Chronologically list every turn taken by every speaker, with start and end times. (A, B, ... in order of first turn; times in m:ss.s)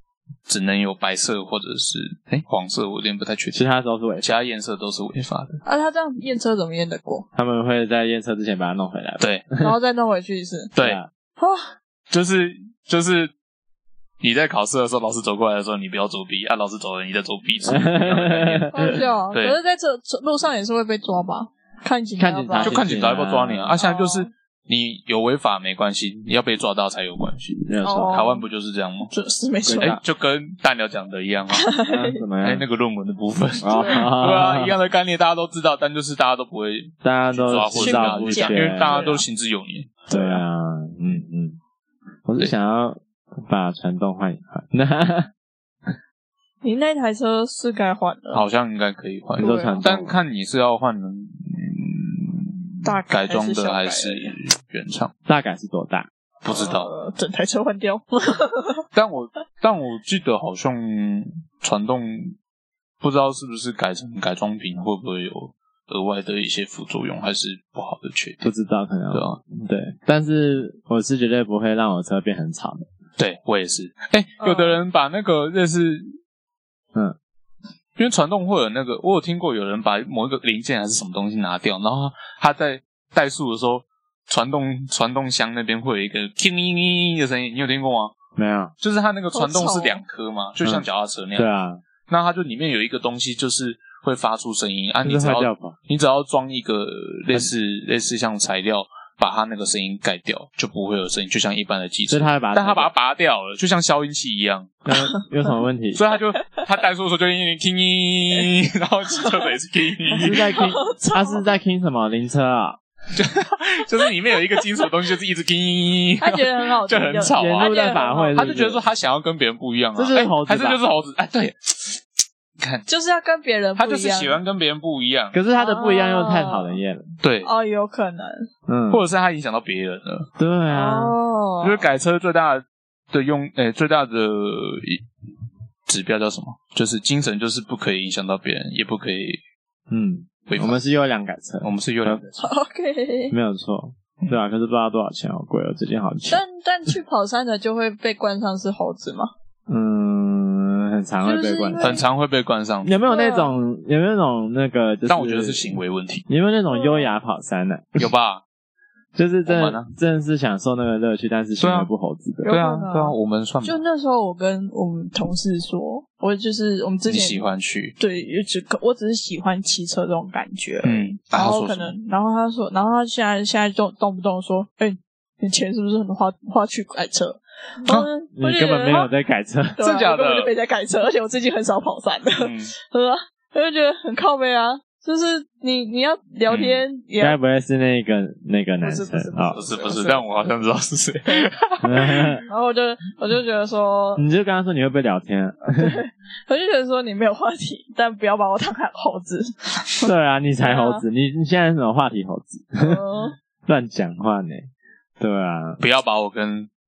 0:00.5-0:03.6 A
0:03.5-0:04.3 B
0:04.2-0:05.6 A
0:05.6-0:07.3 C
0:07.3-0:09.7 B
0:09.2-0:09.4 A
0:09.6-0:10.7 C
0:10.7-0:11.0 A
0:10.8-0:11.1 B
0:11.4-0:11.7 C
0:12.1-0:13.3 A
0:14.2-0:19.6 A
0:17.6-0:18.9 B
0:18.7-0:22.9 C
0:22.2-0:23.8 B
0:22.6-0:29.1 A
0:23.8-0:24.3 C
0:27.6-0:28.3 B
0:27.8-0:28.4 C
0:29.1-0:30.0 C
0:29.6-0:30.0 B
0:29.8-0:31.7 A
0:31.5-0:32.2 C
0:31.8-0:32.6 B
0:32.4-0:40.4 A
0:33.6-0:34.7 B
0:33.7-0:34.0 C
0:37.0-0:39.1 B
0:37.7-0:39.2 C
0:40.1-0:41.6 B
0:42.2-0:45.3 B
0:46.6-0:48.4 C
0:48.3-0:55.1 A
0:49.4-0:49.8 C
0:49.4-0:50.2 B
0:52.8-0:54.3 C
0:55.3-0:56.1 B
0:56.4-0:56.9 A
0:56.5-0:58.8 C
0:58.9-1:02.4 A
1:03.0-1:08.5 A
1:08.4-1:12.9 B
1:09.1-1:09.4 A
1:13.2-1:16.2 A
1:14.4-1:14.8 C
1:18.0-1:28.1 A
1:28.4-1:28.7 B
1:28.8-1:31.5 A
1:29.3-1:30.0 C
1:30.6-1:31.8 B
1:32.1-1:44.8 A
1:35.0-1:35.8 B
1:42.1-1:42.9 B
1:44.8-1:46.0 B
1:45.9-1:50.5 A
1:50.2-1:52.8 B
1:50.2-1:51.4 C
1:53.1-1:57.8 A
1:56.2-1:58.4 C
1:57.4-1:58.8 B
1:58.3-2:02.0 A
2:00.0-2:00.8 B
2:02.6-2:02.8 A
2:02.9-2:04.4 C
2:03.8-2:05.3 A
2:05.3-2:07.1 B
2:05.5-2:06.8 C
2:07.2-2:07.5 A
2:07.4-2:08.5 C
2:08.7-2:09.0 B
2:08.9-2:10.3 A
2:10.4-2:11.2 B
2:10.7-2:11.8 C
2:11.6-2:15.0 A
2:15.9-2:19.4 A
2:19.9-2:22.2 B
2:20.5-2:20.8 A
2:21.6-2:22.4 A
2:22.4-2:23.3 C
2:23.3-2:26.4 B
2:26.3-2:29.3 C
2:29.7-2:31.9 B
2:31.2-2:32.0 C
2:31.8-2:32.9 A
2:32.8-2:38.1 B
2:33.1-2:33.5 C
2:35.1-2:36.2 A
2:36.7-2:37.2 C
2:38.0-2:38.4 A
2:39.1-2:42.5 B
2:39.4-2:39.9 A
2:41.6-2:41.9 A
2:42.4-2:47.4 C
2:42.5-2:43.8 A
2:47.1-2:47.9 A
2:48.0-2:59.1 C
2:50.8-2:51.9 A
2:57.9-2:59.8 B
2:59.8-3:07.4 C
2:59.8-3:00.5 A
3:02.4-3:02.7 A
3:06.5-3:06.8 A
3:07.2-3:09.6 B
3:08.8-3:10.3 C
3:09.5-3:12.4 A
3:11.8-3:12.4 B
3:12.5-3:14.2 C
3:14.2-3:16.0 B
3:15.7-3:20.1 C
3:20.0-3:23.0 B
3:20.6-3:21.0 C
3:22.8-3:23.3 C
3:23.6-3:24.7 B
3:25.2-3:25.8 B
3:25.8-3:26.7 A